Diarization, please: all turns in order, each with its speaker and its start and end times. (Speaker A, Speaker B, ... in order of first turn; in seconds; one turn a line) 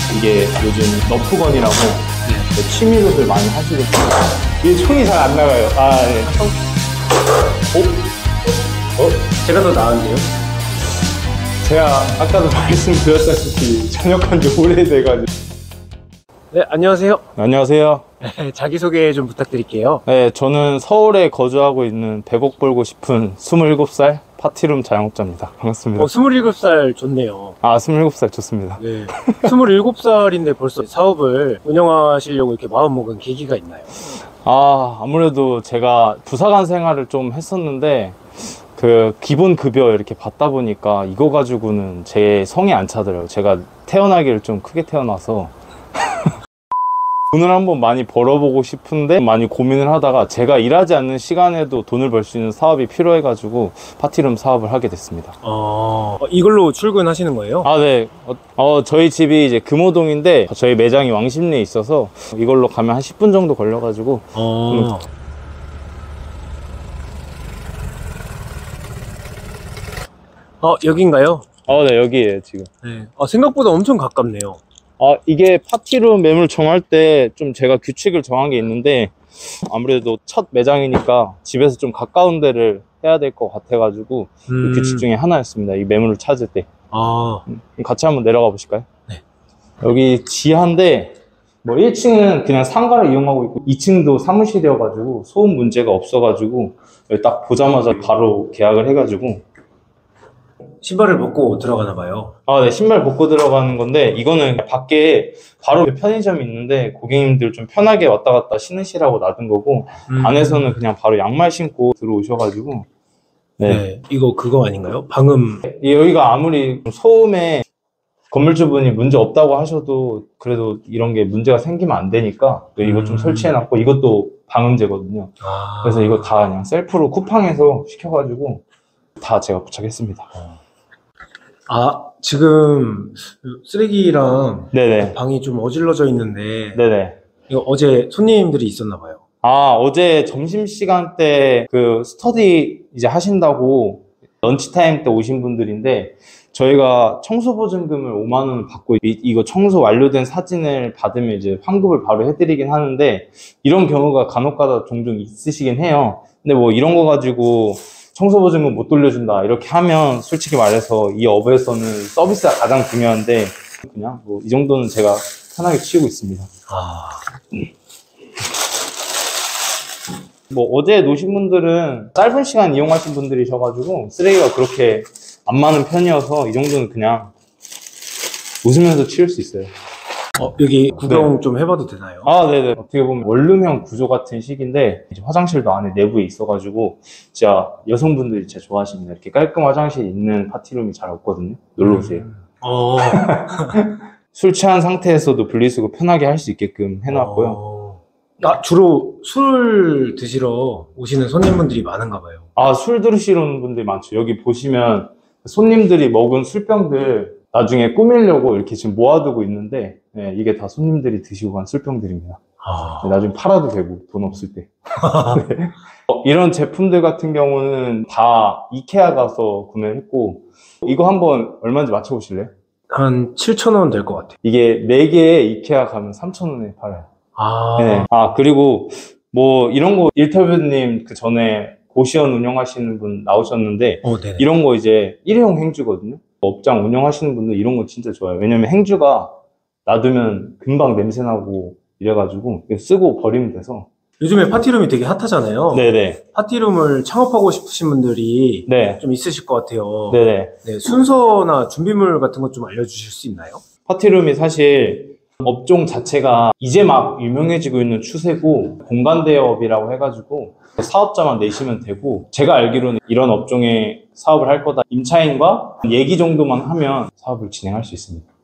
Speaker A: 0.1-6.6
Speaker A: 7.7-8.1
Speaker A: 9.0-9.2
Speaker B: 9.4-10.3
Speaker A: 11.6-15.3
Speaker B: 16.5-17.2
Speaker A: 17.4-18.1
Speaker B: 18.2-20.1
Speaker A: 20.1-26.1
Speaker B: 26.0-27.6
Speaker A: 27.6-29.5
Speaker B: 28.8-33.9
Speaker A: 34.4-45.5
Speaker A: 47.3-55.4
Speaker B: 55.4-57.7
Speaker A: 57.6-64.9
Speaker B: 64.3-65.1
Speaker B: 70.6-71.5
Speaker A: 71.7-72.7
Speaker B: 72.8-74.6
Speaker A: 75.0-86.7
Speaker B: 84.5-85.1
Speaker B: 86.9-87.5
Speaker A: 87.5-88.9
Speaker A: 89.8-99.4
Speaker B: 100.8-102.3
Speaker A: 102.5-112.9
Speaker B: 110.1-110.8
Speaker A: 113.6-113.8
Speaker B: 113.7-115.7
Speaker A: 115.7-117.7
Speaker A: 118.3-128.6
Speaker B: 122.8-123.5
Speaker B: 125.4-126.3
Speaker A: 129.2-130.3
Speaker B: 131.7-136.8
Speaker A: 134.7-135.2
Speaker A: 136.8-137.2
Speaker B: 137.5-139.2
Speaker A: 139.4-166.5
Speaker B: 166.7-167.3
Speaker A: 170.5-177.3
Speaker A: 178.6-179.7
Speaker B: 180.4-182.3
Speaker A: 181.1-181.3
Speaker A: 182.2-192.3
Speaker B: 191.8-193.8
Speaker A: 193.1-197.6
Speaker B: 197.1-202.5
Speaker A: 202.6-212.4
Speaker B: 212.6-213.1
Speaker A: 213.0-222.5
Speaker B: 215.1-215.4
Speaker B: 222.9-224.3
Speaker A: 224.4-227.1
Speaker B: 227.4-228.1
Speaker A: 227.8-239.3
Speaker B: 234.0-234.5
Speaker A: 239.9-243.9
Speaker B: 244.2-253.6
Speaker A: 245.7-246.2
Speaker A: 248.7-249.0
Speaker A: 250.1-250.6
Speaker A: 253.9-268.2